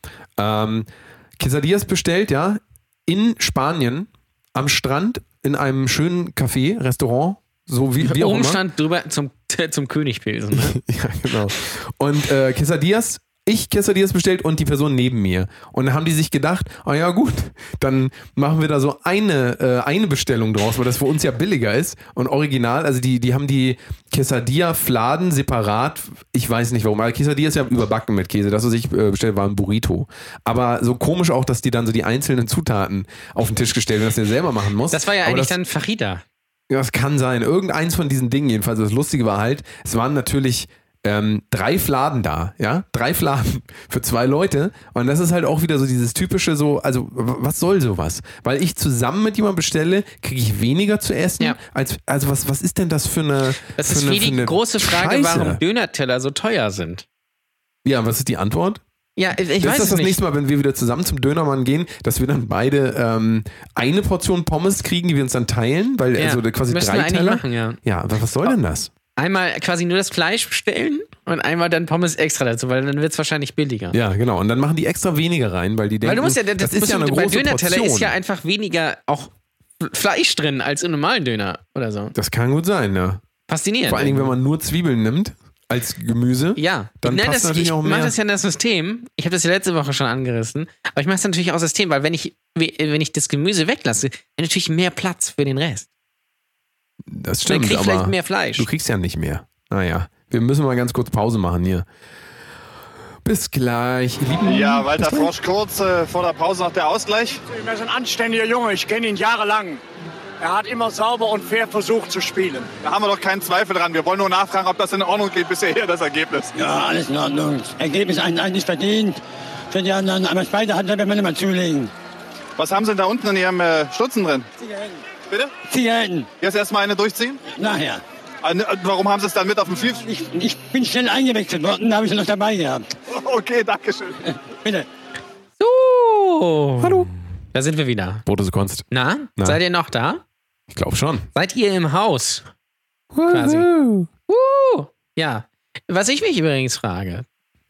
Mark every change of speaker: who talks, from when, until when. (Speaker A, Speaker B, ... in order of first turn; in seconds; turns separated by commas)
Speaker A: 0.4-8.6, Speaker B: 8.0-10.8, Speaker A: 10.5-35.5, Speaker B: 34.9-36.2, Speaker A: 36.7-55.6, Speaker B: 53.8-57.0, Speaker A: 57.8-58.8, Speaker B: 59.2-60.2, Speaker A: 59.6-68.9, Speaker B: 66.2-67.8, Speaker B: 69.2-74.0, Speaker A: 73.9-78.2, Speaker B: 76.0-82.1, Speaker A: 82.1-83.2, Speaker B: 83.5-84.3, Speaker A: 83.8-88.2, Speaker B: 86.5-95.9, Speaker A: 97.0-101.8, Speaker B: 97.5-98.7, Speaker A: 103.2-105.3, Speaker C: 104.4-107.4, Speaker D: 107.4-109.8, Speaker D: 110.4-112.7, Speaker C: 112.8-116.5, Speaker E: 116.5-119.2, Speaker E: 119.7-121.9, Speaker C: 122.6-124.5, Speaker E: 124.6-125.0, Speaker E: 125.7-126.3, Speaker C: 126.4-127.4, Speaker E: 127.5-128.0, Speaker C: 128.4-130.0, Speaker E: 130.0-132.8, Speaker C: 133.1-134.2, Speaker B: 135.6-138.2, Speaker A: 136.8-137.1, Speaker A: 138.2-139.6, Speaker B: 138.9-140.2, Speaker A: 140.7-141.3, Speaker B: 141.3-142.4, Speaker A: 143.1-144.1, Speaker B: 143.3-143.7, Speaker B: 144.3-147.2